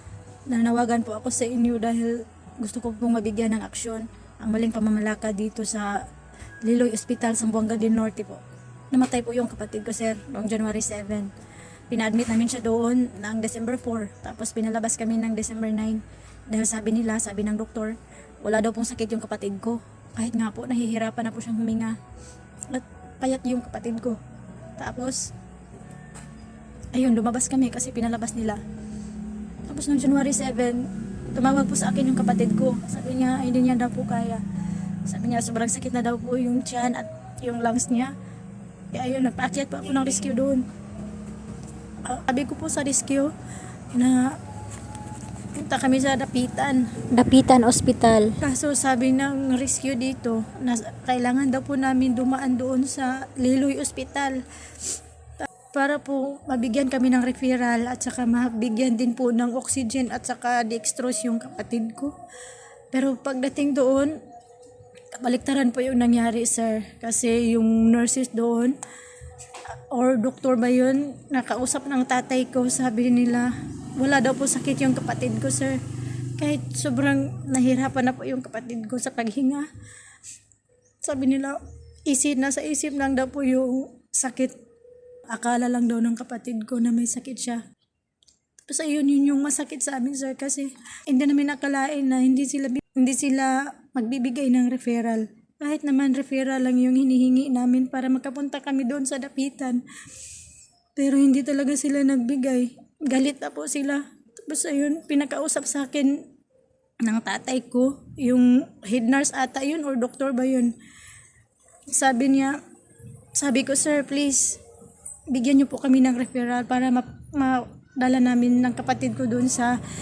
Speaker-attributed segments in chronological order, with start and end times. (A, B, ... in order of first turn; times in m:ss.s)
0:00.5-0:06.0 A
0:06.6-0:11.3 A
0:11.9-0:22.0 A
0:22.7-0:24.2 A
0:24.8-0:25.3 A
0:26.9-0:28.6 A
0:29.7-0:34.4 A
0:35.0-0:38.1 A
0:38.9-0:40.7 A
0:42.0-0:43.3 A
0:43.9-0:44.4 A
0:45.5-0:54.4 A
0:55.4-1:02.2 A
1:02.9-1:04.2 A
1:05.1-1:08.8 A
1:09.7-1:15.8 A
1:16.4-1:19.7 A
1:21.0-1:24.6 A
1:25.3-1:27.6 A
1:28.7-1:39.8 A
1:41.0-1:46.2 A
1:47.0-1:50.7 A
1:51.9-1:52.6 A
1:53.3-1:54.6 A
1:55.3-1:59.8 A